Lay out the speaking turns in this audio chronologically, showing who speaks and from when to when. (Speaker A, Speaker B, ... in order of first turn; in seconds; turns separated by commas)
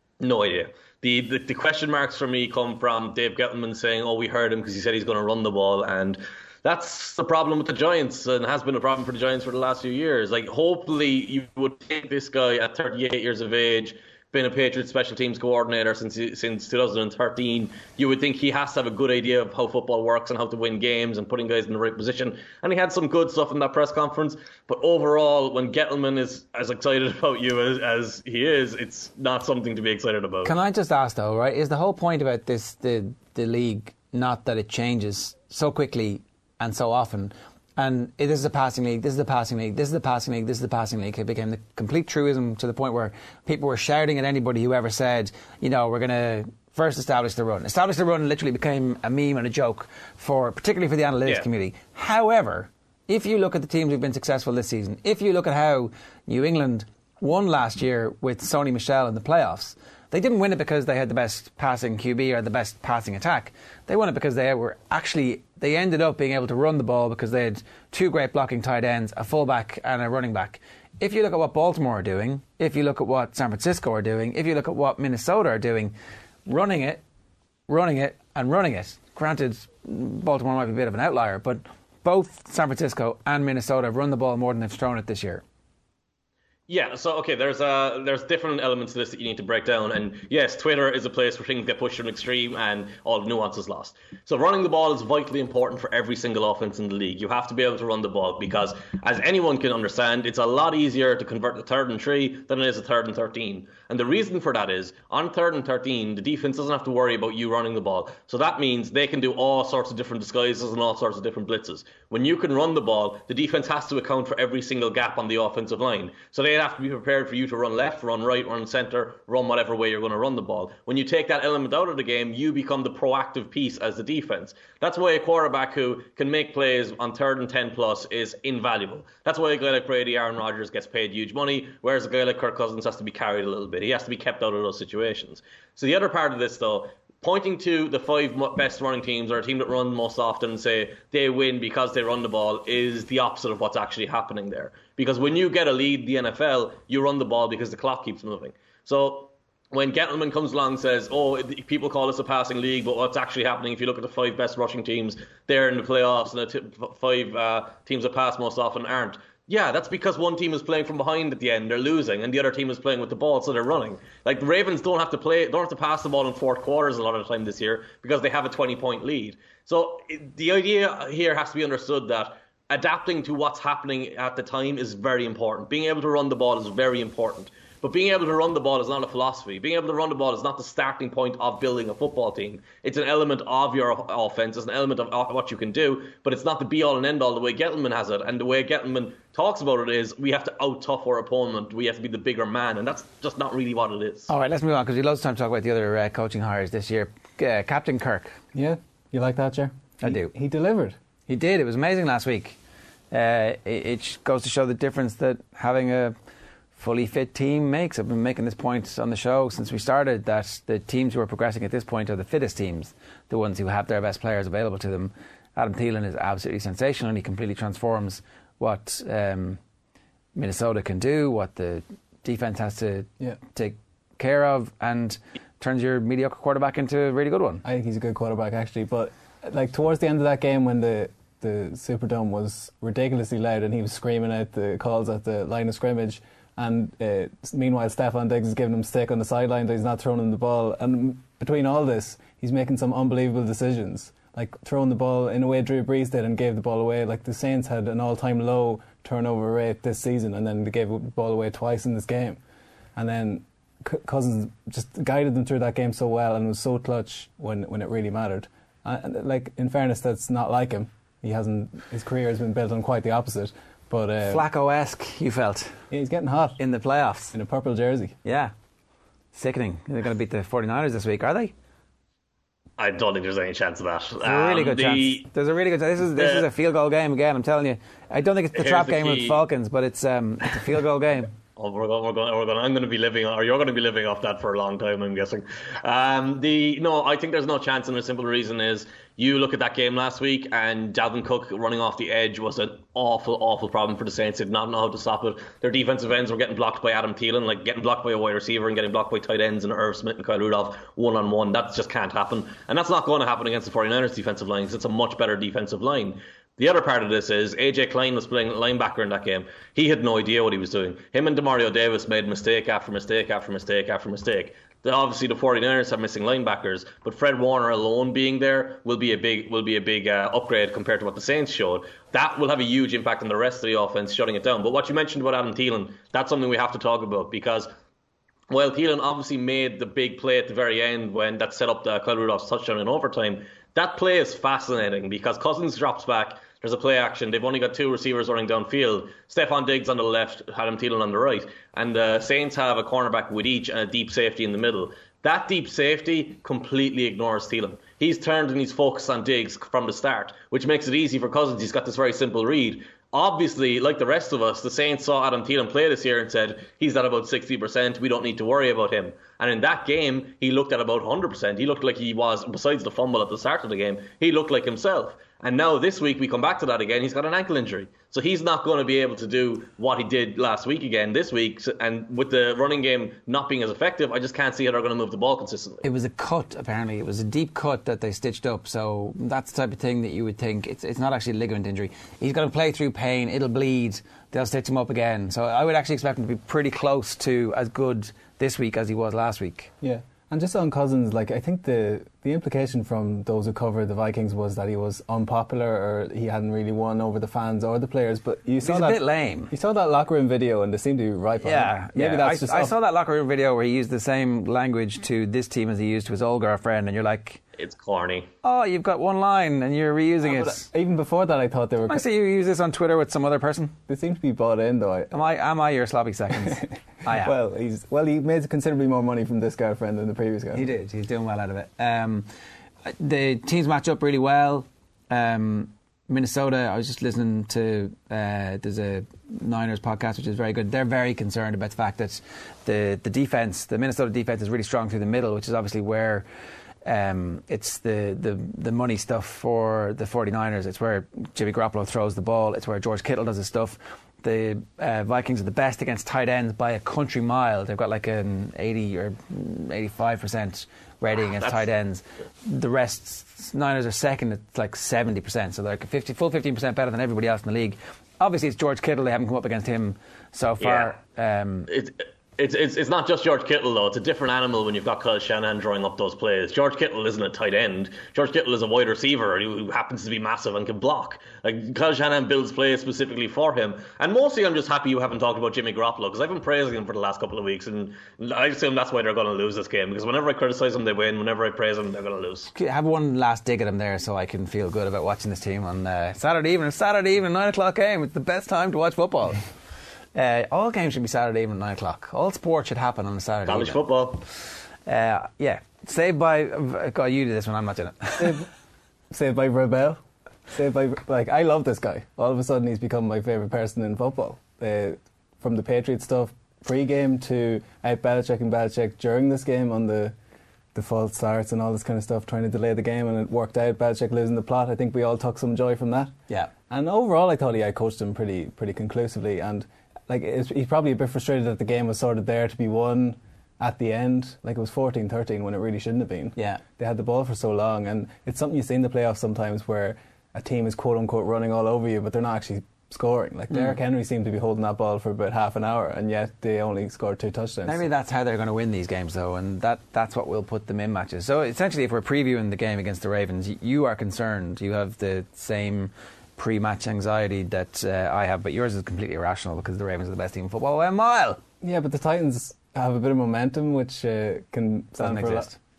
Speaker A: 0.2-30.5, Speaker B: 30.4-75.9, Speaker B: 76.5-77.0, Speaker B: 77.7-85.4, Speaker A: 86.7-194.3, Speaker B: 194.3-198.4, Speaker C: 198.5-201.0, Speaker B: 200.0-200.3, Speaker B: 201.3-202.6, Speaker B: 203.1-206.1, Speaker B: 206.8-219.6, Speaker B: 220.3-227.6, Speaker C: 227.6-252.4, Speaker C: 252.9-264.4, Speaker B: 264.2-265.9, Speaker C: 265.9-266.6, Speaker B: 266.6-267.3, Speaker C: 267.3-268.2, Speaker B: 268.2-268.5, Speaker B: 269.3-271.5, Speaker A: 272.8-275.3, Speaker B: 274.2-281.3, Speaker A: 276.1-276.4, Speaker A: 278.5-279.4, Speaker A: 281.6-327.7, Speaker A: 328.5-375.8, Speaker B: 375.8-389.7, Speaker C: 389.8-402.7, Speaker B: 398.6-399.5, Speaker B: 401.4-407.4, Speaker A: 407.6-408.3, Speaker B: 408.4-410.7, Speaker C: 410.2-412.1, Speaker B: 411.9-413.8, Speaker C: 413.9-415.1, Speaker B: 415.1-417.3, Speaker C: 416.3-420.7, Speaker B: 420.5-422.3, Speaker B: 422.8-436.2, Speaker B: 436.8-461.7, Speaker A: 460.6-460.9, Speaker A: 461.7-482.5, Speaker B: 482.5-489.4, Speaker B: 490.1-493.8, Speaker A: 493.5-494.2, Speaker B: 494.9-498.4, Speaker C: 498.2-498.4, Speaker C: 499.1-510.1, Speaker C: 510.7-516.1, Speaker C: 516.7-537.8, Speaker B: 526.4-526.6, Speaker B: 537.6-551.4, Speaker C: 551.6-555.5, Speaker B: 555.0-555.5